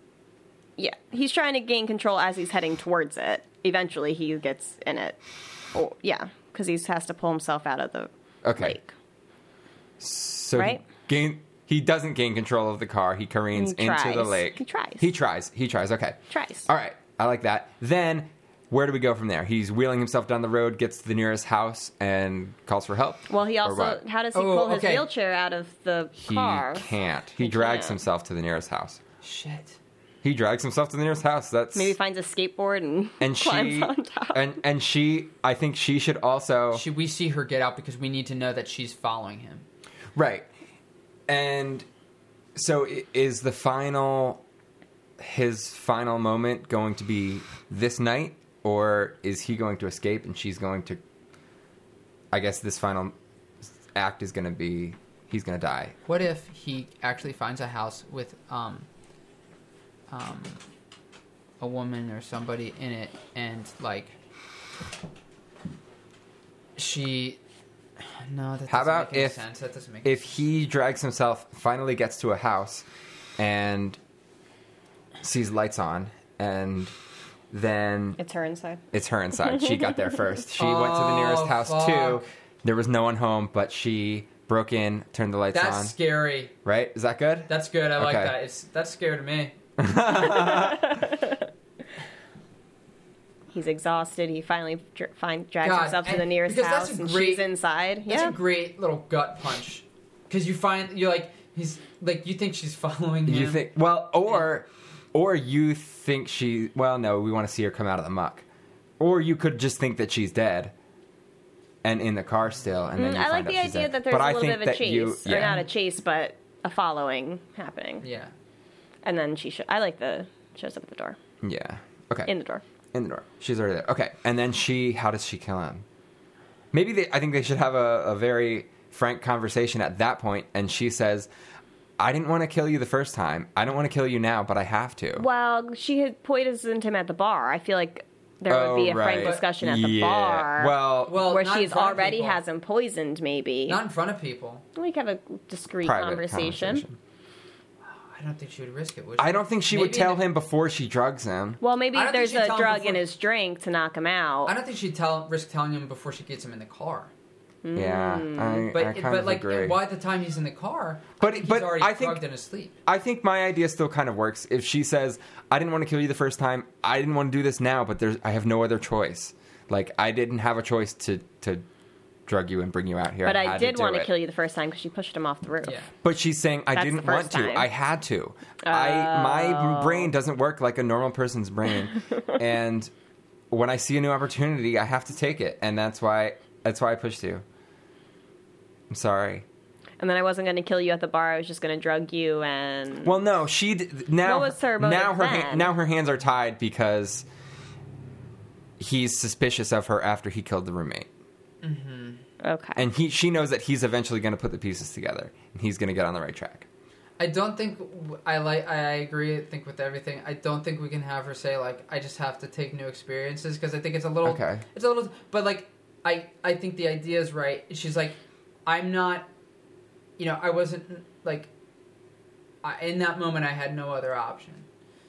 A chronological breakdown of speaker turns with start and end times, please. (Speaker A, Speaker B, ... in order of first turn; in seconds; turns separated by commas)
Speaker A: 0.8-5.2, Speaker A: 5.7-8.9, Speaker B: 8.4-8.8, Speaker B: 10.0-24.0, Speaker A: 10.6-10.8, Speaker A: 13.5-15.0, Speaker A: 16.3-16.7, Speaker A: 23.3-28.0, Speaker C: 24.3-25.1, Speaker B: 26.2-29.0, Speaker C: 29.2-29.8, Speaker B: 30.2-31.9, Speaker A: 31.7-34.4, Speaker B: 33.2-36.9, Speaker C: 36.7-39.6, Speaker B: 40.1-40.5, Speaker B: 41.3-41.9, Speaker B: 42.5-44.4, Speaker B: 45.2-51.0, Speaker B: 52.3-56.0, Speaker C: 56.1-58.9, Speaker C: 60.1-60.6, Speaker C: 61.6-64.1, Speaker C: 66.8-67.4, Speaker C: 68.2-70.1, Speaker B: 68.7-69.4, Speaker B: 70.0-72.8, Speaker B: 73.4-74.0, Speaker B: 75.2-76.9, Speaker B: 77.5-78.2, Speaker A: 78.2-78.8, Speaker B: 78.9-85.9, Speaker A: 79.5-80.1, Speaker C: 80.6-82.3, Speaker C: 85.5-86.5, Speaker B: 86.6-88.3, Speaker C: 87.5-89.5, Speaker B: 89.8-91.1, Speaker A: 90.5-91.1, Speaker A: 93.5-98.3, Speaker C: 95.6-97.5, Speaker C: 98.1-103.6, Speaker B: 103.3-108.4, Speaker B: 109.0-110.7, Speaker B: 111.8-115.6, Speaker A: 113.0-118.0, Speaker C: 115.3-115.7, Speaker C: 118.0-118.3, Speaker A: 119.0-121.2, Speaker B: 121.4-122.3, Speaker A: 122.3-122.6, Speaker B: 122.9-125.8, Speaker B: 126.7-131.3, Speaker B: 132.0-135.3, Speaker A: 135.2-143.8, Speaker B: 138.5-141.2, Speaker C: 141.1-142.4, Speaker C: 143.7-144.6, Speaker A: 144.7-146.8, Speaker B: 145.8-147.0, Speaker C: 147.9-150.2, Speaker B: 149.2-151.6, Speaker A: 151.6-154.5, Speaker C: 151.9-153.0, Speaker C: 154.4-157.1, Speaker A: 157.6-158.7, Speaker B: 157.7-159.8, Speaker C: 158.7-162.7, Speaker B: 161.2-162.2, Speaker B: 162.8-171.6, Speaker B: 172.3-174.1, Speaker A: 173.2-175.8, Speaker B: 176.0-182.9, Speaker A: 176.7-177.7, Speaker A: 178.6-180.1, Speaker B: 183.5-187.4, Speaker B: 188.9-189.4, Speaker A: 190.0-193.1, Speaker B: 193.1-197.3, Speaker A: 194.2-195.7, Speaker B: 198.8-201.1, Speaker C: 201.6-202.2, Speaker A: 202.4-202.8, Speaker B: 202.8-206.7, Speaker C: 207.2-219.3, Speaker B: 214.2-214.6, Speaker C: 220.2-221.5, Speaker C: 222.6-224.7